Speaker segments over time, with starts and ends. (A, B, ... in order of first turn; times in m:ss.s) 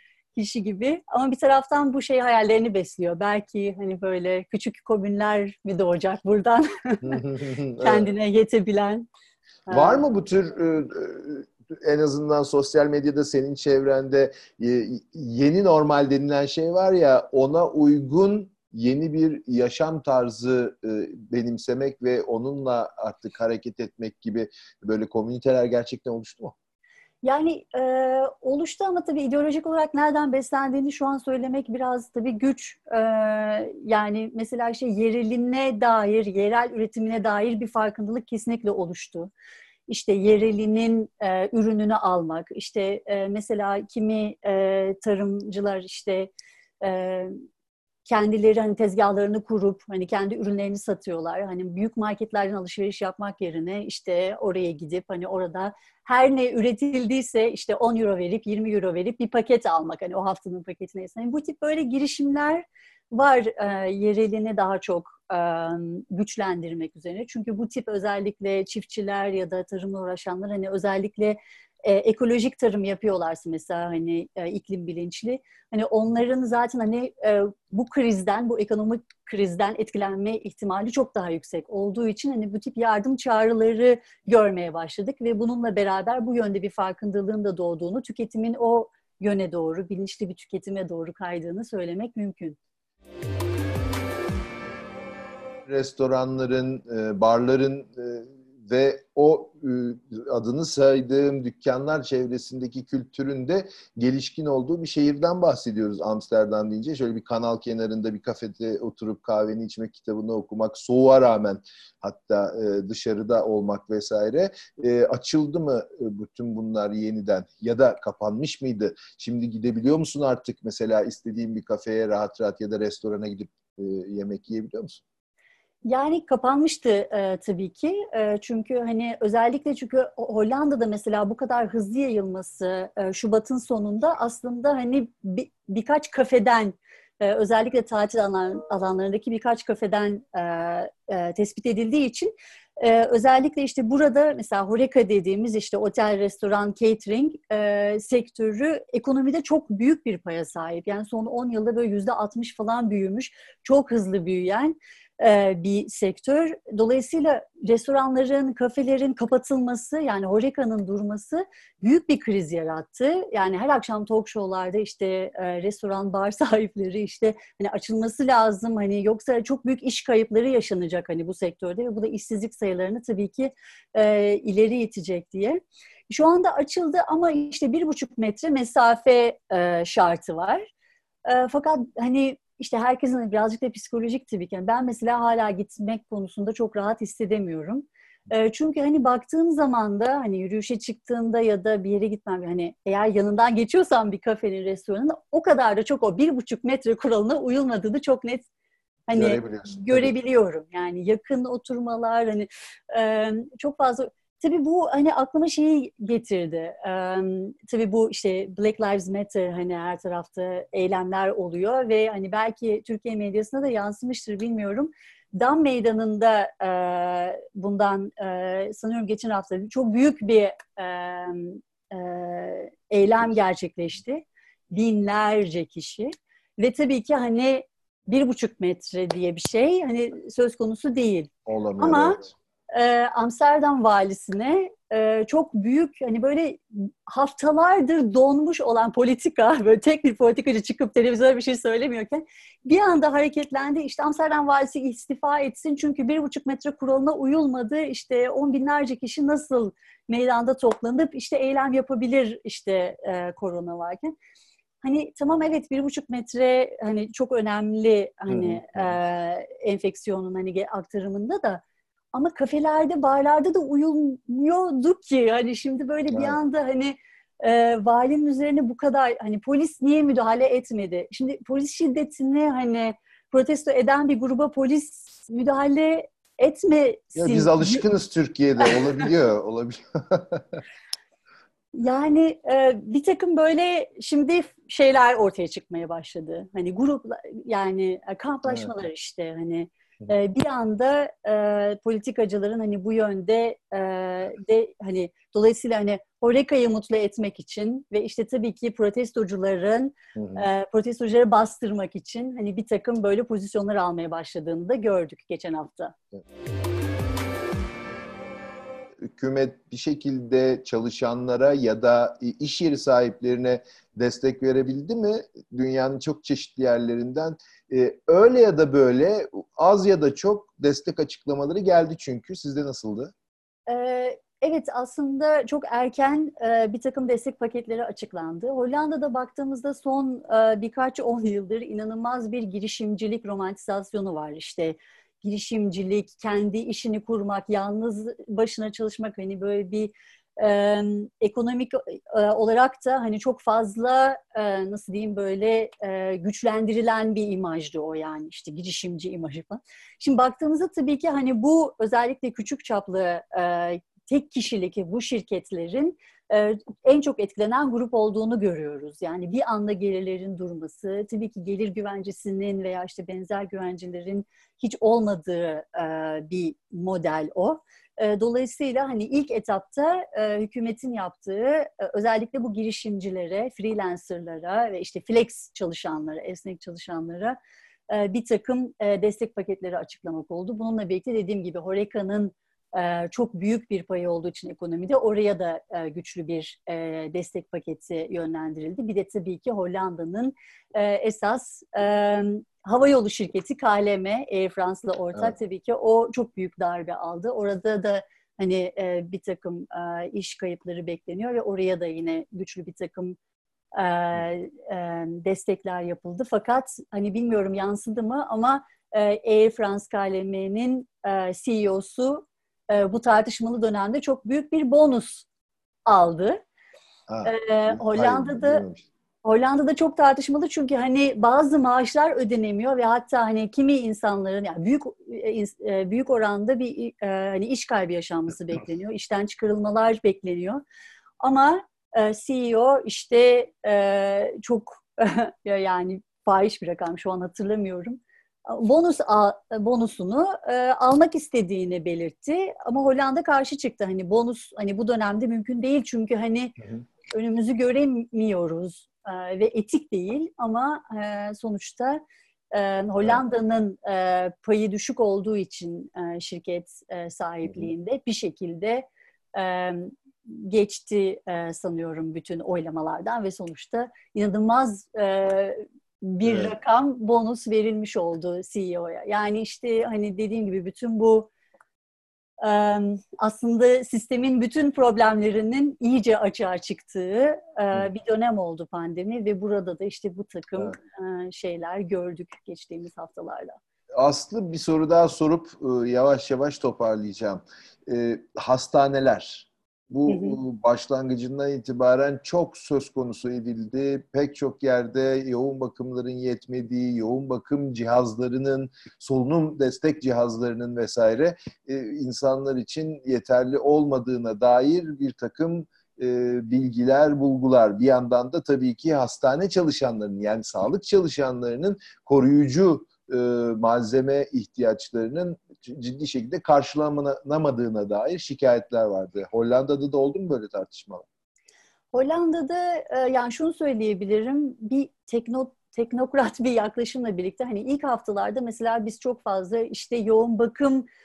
0:00.3-0:07.2 A
0:07.0-0:08.1 B
0:07.8-0:09.1 A
0:09.7-0:10.0 A
0:09.7-0:26.5 B
0:27.2-0:39.3 A
0:39.9-0:47.3 A
0:48.0-1:32.6 A
1:35.6-2:05.0 B
2:05.8-3:00.7 A
3:01.2-3:18.5 A
3:19.1-4:14.1 A
3:19.1-3:20.1 B
3:51.4-3:52.3 B
4:14.8-4:21.6 A
4:18.3-4:18.9 B
4:22.1-4:37.8 A
4:26.1-4:26.4 B
4:37.2-4:40.6 B
4:41.7-5:05.9 A
5:00.2-5:00.4 B
5:09.0-5:23.1 B
5:23.7-6:17.4 A
6:17.9-6:43.2 A
6:43.7-6:55.2 A
6:55.8-6:56.4 A
6:57.1-6:58.9 B
6:57.2-6:58.6 A
6:59.2-7:10.6 A
7:11.2-7:26.6 A
7:27.1-7:32.0 A
7:32.5-7:51.3 A
7:46.2-7:46.5 B
7:52.4-8:03.6 A
8:04.0-8:41.0 B
8:10.1-8:10.4 A
8:41.9-8:50.8 A